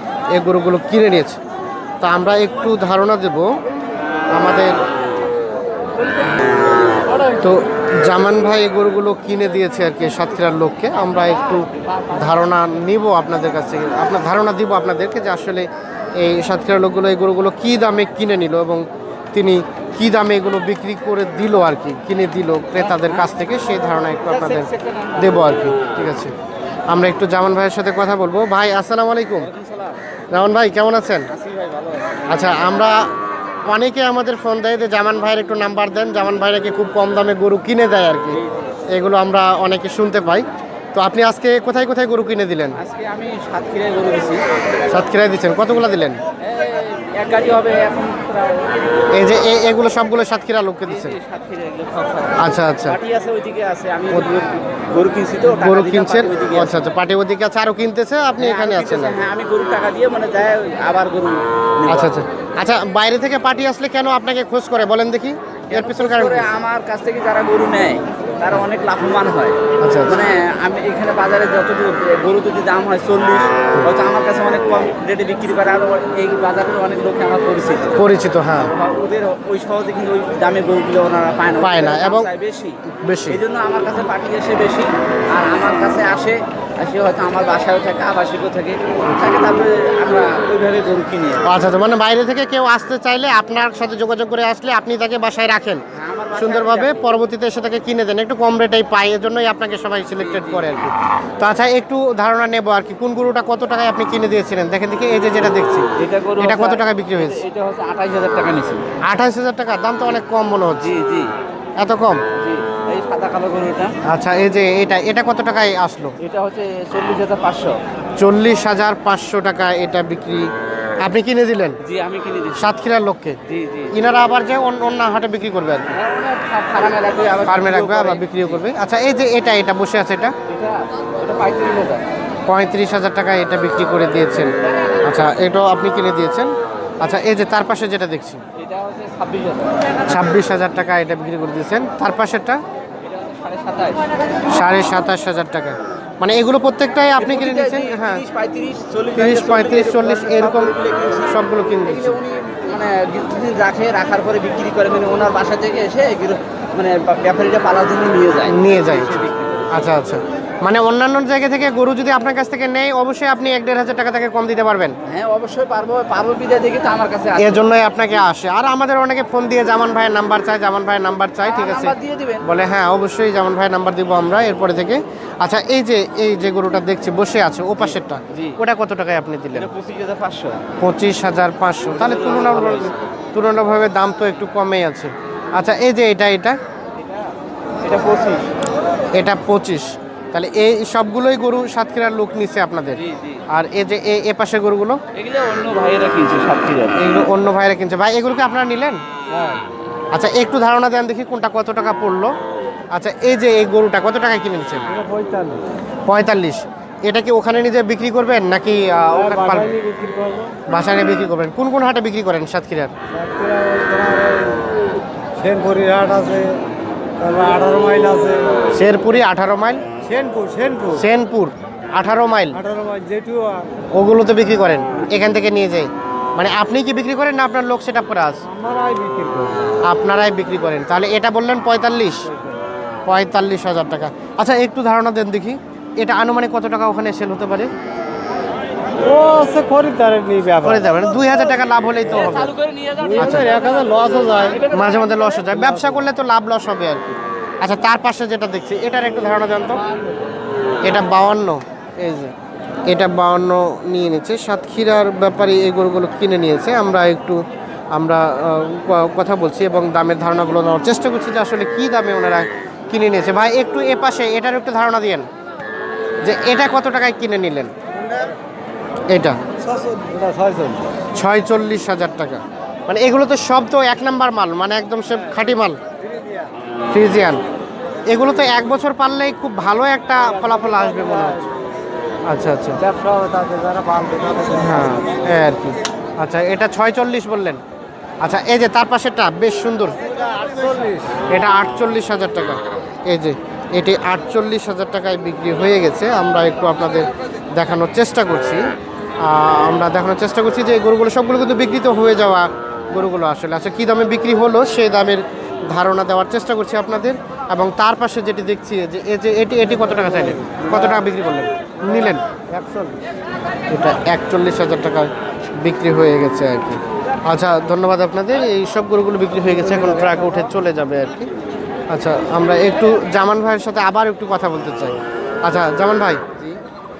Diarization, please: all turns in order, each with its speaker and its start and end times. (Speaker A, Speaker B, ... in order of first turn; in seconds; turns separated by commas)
Speaker A: 0.3-1.4, Speaker A: 2.0-3.5, Speaker A: 4.3-4.8, Speaker B: 6.0-6.3, Speaker B: 7.1-7.5, Speaker A: 7.4-26.3, Speaker B: 11.2-12.5, Speaker B: 22.8-23.3, Speaker B: 24.3-25.6, Speaker A: 26.9-29.5, Speaker B: 29.4-30.0, Speaker A: 30.3-31.3, Speaker B: 31.3-32.3, Speaker A: 32.3-33.1, Speaker A: 33.7-38.4, Speaker B: 38.3-38.7, Speaker A: 38.9-42.8, Speaker B: 42.8-44.4, Speaker A: 44.9-46.2, Speaker B: 46.4-48.7, Speaker A: 49.1-51.1, Speaker B: 50.9-56.8, Speaker A: 52.4-53.0, Speaker A: 55.5-59.2, Speaker B: 58.4-62.1, Speaker A: 61.9-66.5, Speaker B: 65.7-91.4, Speaker A: 69.8-70.2, Speaker A: 78.0-78.7, Speaker A: 81.6-82.3, Speaker A: 82.9-83.4, Speaker A: 89.0-89.4, Speaker A: 91.4-95.8, Speaker B: 95.9-97.0, Speaker A: 96.3-105.8, Speaker B: 100.2-100.8, Speaker B: 106.0-108.8, Speaker A: 106.4-107.4, Speaker A: 109.0-110.9, Speaker B: 110.8-111.3, Speaker A: 111.8-112.2, Speaker B: 112.3-113.9, Speaker A: 114.1-116.1, Speaker B: 116.2-117.8, Speaker A: 118.2-120.5, Speaker A: 121.0-121.8, Speaker B: 121.8-122.7, Speaker A: 122.5-123.4, Speaker B: 123.5-123.9, Speaker A: 123.9-125.8, Speaker B: 125.9-128.6, Speaker A: 127.5-130.3, Speaker B: 130.5-132.0, Speaker A: 132.5-134.5, Speaker B: 134.7-135.0, Speaker A: 135.0-138.4, Speaker B: 138.6-140.2, Speaker A: 140.1-142.6, Speaker B: 143.0-144.0, Speaker A: 144.5-148.2, Speaker B: 147.2-159.9, Speaker A: 149.1-150.7, Speaker A: 151.2-152.2, Speaker A: 158.5-164.9, Speaker B: 165.1-168.2, Speaker A: 167.4-179.7, Speaker B: 171.4-172.4, Speaker B: 177.8-178.6, Speaker B: 179.5-180.6, Speaker A: 180.8-186.6, Speaker B: 181.9-182.9, Speaker B: 187.0-188.5, Speaker A: 189.1-193.0, Speaker B: 192.9-193.4, Speaker A: 193.5-195.0, Speaker B: 195.1-197.0, Speaker A: 197.0-199.0, Speaker C: 199.3-199.6, Speaker A: 200.1-202.3, Speaker A: 202.9-204.8, Speaker C: 204.9-205.6, Speaker A: 206.1-209.7, Speaker C: 209.1-210.6, Speaker A: 210.7-212.9, Speaker C: 213.1-214.6, Speaker C: 215.4-216.6, Speaker C: 217.2-218.5, Speaker A: 218.7-219.8, Speaker C: 220.0-221.0, Speaker A: 220.9-222.6, Speaker C: 222.5-223.7, Speaker A: 223.9-228.4, Speaker C: 228.5-229.8, Speaker A: 229.8-232.3, Speaker C: 232.3-232.6, Speaker A: 233.1-237.7, Speaker C: 239.0-240.8, Speaker A: 240.6-242.5, Speaker B: 242.1-245.4, Speaker C: 243.0-244.6, Speaker A: 243.2-243.5, Speaker A: 244.7-249.8, Speaker C: 245.5-246.0, Speaker C: 249.8-250.2, Speaker A: 250.8-252.3, Speaker A: 252.9-257.4, Speaker A: 257.9-265.3, Speaker A: 266.2-267.7, Speaker A: 269.1-269.4, Speaker C: 269.6-270.9, Speaker A: 271.1-275.8, Speaker A: 276.9-277.4, Speaker A: 278.1-281.4, Speaker C: 280.2-281.5, Speaker A: 282.3-282.8, Speaker C: 282.8-285.1, Speaker A: 284.6-287.6, Speaker A: 288.2-289.9, Speaker C: 290.3-291.1, Speaker A: 291.3-298.7, Speaker A: 299.2-312.2, Speaker C: 309.7-311.1, Speaker C: 311.8-313.0, Speaker A: 313.7-321.3, Speaker C: 319.4-320.4, Speaker A: 321.9-326.2, Speaker B: 326.4-326.6